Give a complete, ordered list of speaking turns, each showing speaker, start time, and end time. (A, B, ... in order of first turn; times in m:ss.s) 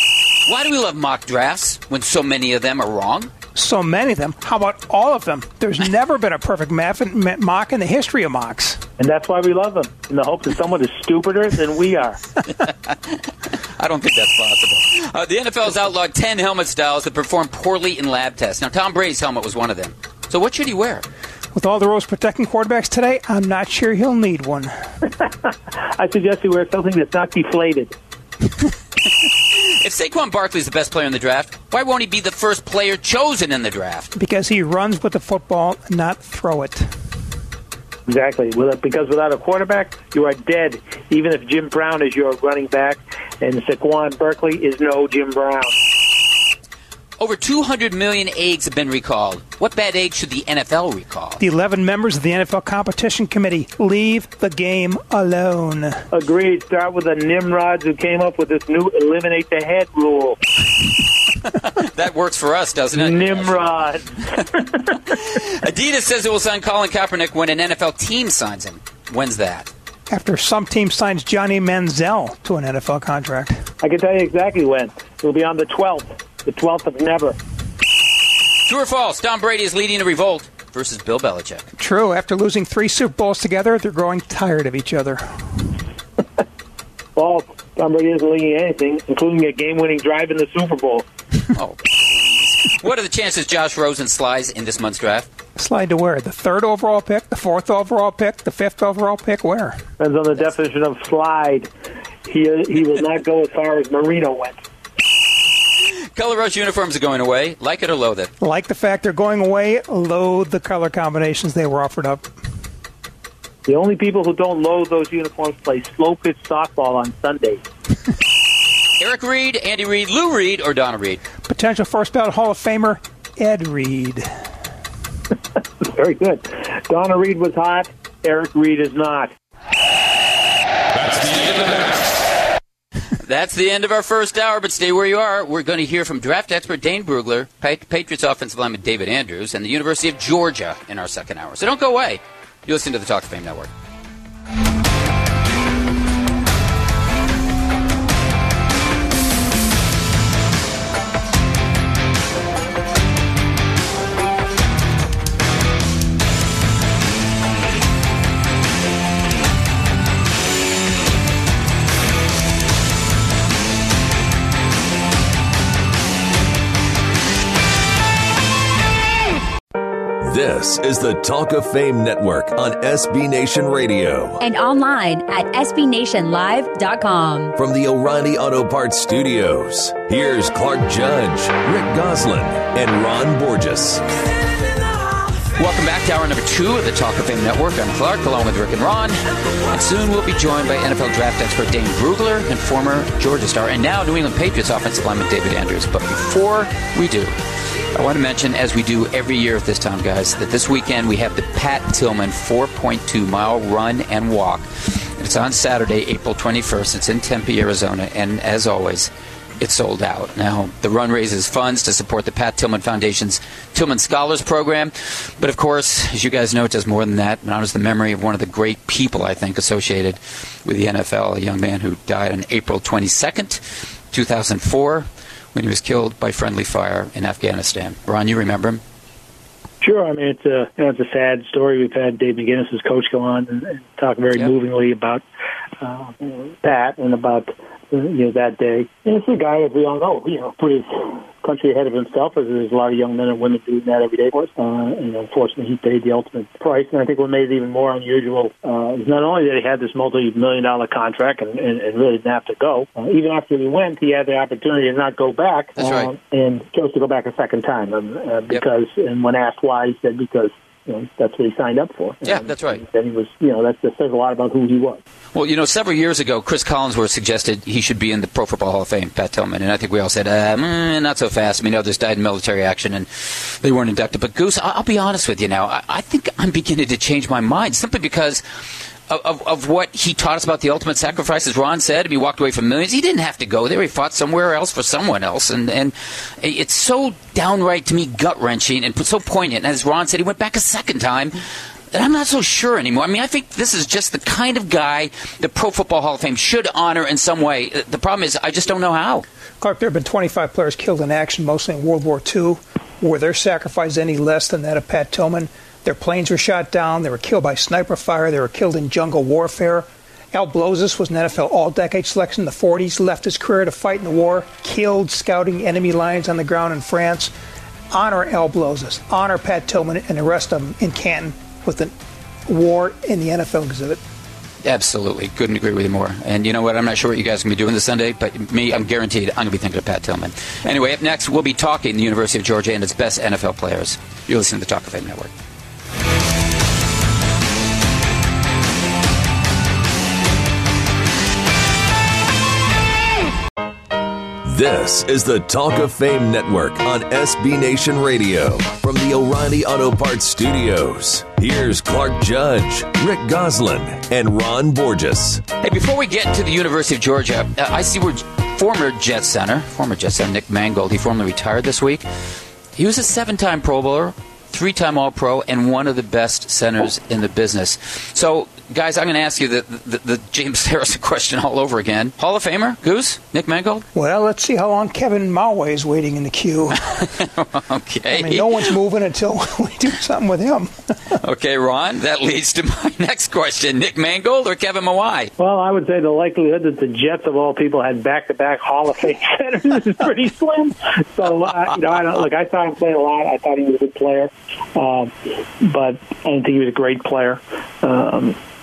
0:00.4-0:03.3 A
0:03.6-0:08.8 B
0:09.0-0:12.2 C
0:12.5-0:21.0 A
0:21.5-0:24.9 B
0:25.2-0:27.9 C
0:29.2-0:34.1 A
0:34.2-0:37.0 B
0:38.1-0:45.8 C
0:47.2-0:51.4 A
0:51.4-0:56.0 B
0:56.1-1:00.4 C
1:01.4-1:09.7 A
1:02.9-1:05.0 C
1:10.1-1:13.6 B
1:13.8-1:17.4 C
1:18.6-1:21.7 A
1:21.8-1:25.7 B
1:27.2-1:31.1 C
1:31.5-1:35.3 A
1:35.6-1:39.8 B
1:40.0-1:41.7 C
1:42.3-1:44.6 C
1:46.2-1:48.3 A
1:48.4-1:52.3 B
1:53.7-1:57.6 C
1:59.0-2:01.2 A
2:01.5-2:04.4 B
2:05.9-2:09.3 C
2:11.1-2:12.2 A
2:13.2-2:23.7 A
2:50.2-2:54.4 D
2:54.4-2:57.5 E
2:57.6-3:04.0 D
3:05.6-3:17.3 A
3:17.9-3:48.8 A
3:49.8-3:55.2 C
3:55.8-4:25.0 C
4:15.8-4:16.1 A
4:22.2-4:22.8 A
4:25.3-4:51.4 A
4:51.9-4:59.3 A
4:59.6-5:17.3 B
5:17.9-5:21.9 B
5:22.5-5:24.0 B
5:24.6-5:35.3 A
5:44.4-5:55.4 D
5:55.6-6:02.1 A
6:02.8-6:13.9 A
6:14.0-6:16.9 B
6:17.0-6:18.7 A
6:18.1-6:21.2 B
6:21.2-6:25.3 A
6:25.4-6:38.4 C